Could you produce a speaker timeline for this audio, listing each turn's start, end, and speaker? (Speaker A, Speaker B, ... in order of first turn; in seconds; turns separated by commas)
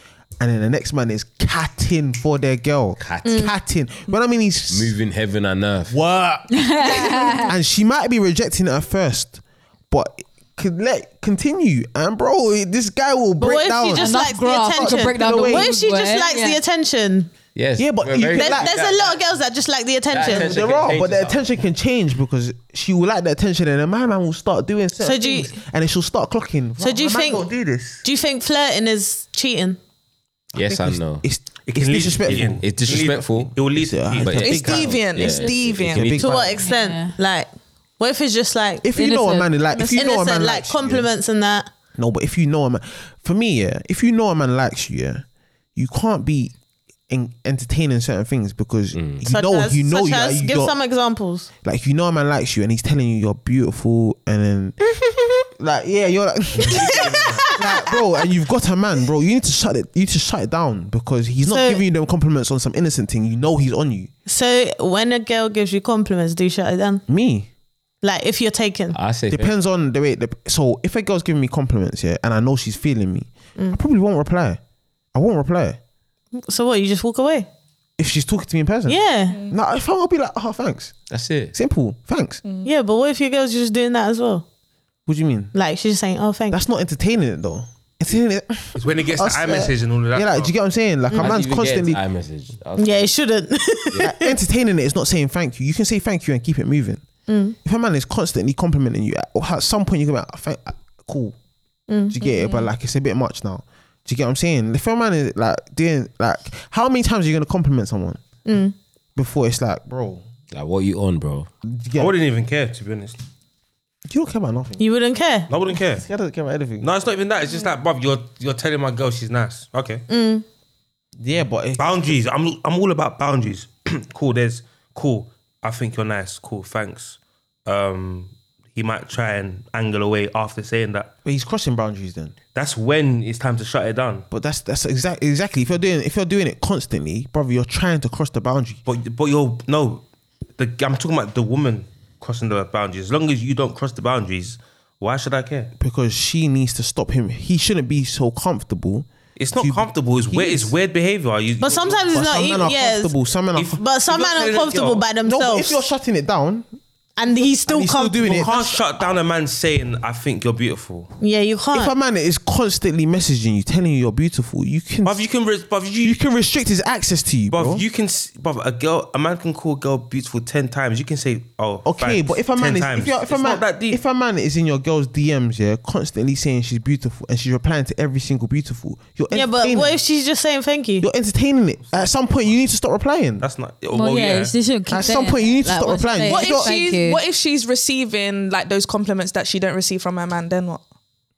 Speaker A: 0.4-5.0, Speaker B: 3.0-3.5, Speaker C: 3.2-3.5, Speaker B: 4.7-6.0, Speaker A: 5.9-14.2, Speaker D: 6.5-7.5, Speaker C: 13.4-17.3, Speaker D: 13.9-16.6, Speaker A: 14.7-15.7, Speaker B: 17.5-19.2, Speaker A: 17.8-18.7, Speaker C: 18.3-20.5, Speaker B: 20.1-21.5, Speaker A: 20.2-28.0, Speaker C: 25.0-25.5, Speaker C: 26.8-27.4, Speaker C: 28.0-29.8, Speaker B: 30.5-31.2, Speaker A: 30.5-32.6, Speaker E: 31.6-34.8, Speaker B: 32.3-33.6, Speaker A: 33.7-35.2, Speaker B: 34.2-36.5, Speaker F: 34.4-36.3, Speaker D: 35.2-35.5, Speaker A: 35.9-36.6, Speaker C: 36.2-38.9, Speaker D: 36.6-37.1, Speaker A: 38.8-41.1, Speaker D: 38.9-39.6, Speaker F: 39.7-40.1, Speaker C: 39.9-41.7, Speaker A: 42.0-45.2, Speaker A: 45.7-46.5, Speaker A: 47.1-50.7, Speaker B: 48.9-49.2, Speaker C: 49.3-51.5, Speaker A: 51.6-57.0, Speaker E: 56.5-57.5, Speaker B: 56.7-57.4, Speaker C: 56.7-58.0, Speaker A: 57.5-64.1, Speaker C: 61.5-61.8, Speaker C: 64.2-67.0, Speaker A: 67.1-67.5, Speaker C: 68.0-69.0, Speaker B: 68.9-69.5, Speaker A: 69.3-74.6, Speaker A: 75.1-75.8, Speaker C: 76.4-77.5, Speaker A: 78.0-80.9, Speaker C: 78.9-79.4, Speaker B: 81.1-81.5, Speaker A: 81.5-82.4, Speaker F: 82.4-82.7, Speaker C: 82.6-84.4, Speaker A: 85.1-85.5, Speaker C: 85.5-86.6, Speaker A: 86.5-92.0, Speaker E: 88.8-90.5, Speaker C: 91.1-91.3, Speaker B: 91.2-93.1, Speaker C: 92.8-94.3, Speaker A: 94.0-97.0, Speaker C: 97.3-97.5, Speaker A: 97.6-101.3, Speaker C: 101.9-102.6, Speaker A: 102.1-108.2, Speaker C: 108.5-108.7, Speaker A: 109.2-110.2, Speaker B: 110.5-111.5, Speaker A: 111.6-112.1, Speaker E: 112.0-113.2, Speaker A: 114.1-114.8, Speaker C: 114.8-115.5, Speaker E: 115.5-116.0, Speaker A: 115.9-116.9, Speaker E: 116.8-120.0, Speaker C: 120.1-120.4, Speaker A: 121.2-122.1, Speaker E: 121.8-131.1, Speaker A: 131.2-132.3, Speaker E: 132.5-134.2, Speaker A: 134.3-138.8, Speaker E: 138.8-140.0, Speaker E: 140.6-145.7, Speaker A: 145.8-150.7, Speaker E: 149.3-152.1, Speaker C: 151.6-153.1, Speaker A: 152.1-153.8, Speaker E: 153.6-155.0, Speaker C: 153.7-155.8, Speaker A: 155.2-156.7, Speaker C: 157.2-158.5, Speaker A: 157.7-159.1, Speaker E: 158.2-161.1, Speaker C: 161.2-161.9, Speaker A: 161.7-165.2, Speaker E: 165.0-166.2, Speaker A: 166.0-167.8, Speaker E: 167.5-174.0, Speaker A: 171.8-180.0, Speaker C: 179.3-181.1, Speaker A: 181.0-183.4, Speaker E: 181.9-182.2, Speaker E: 183.4-184.6, Speaker D: 183.9-187.2, Speaker A: 184.9-186.7, Speaker F: 186.3-190.8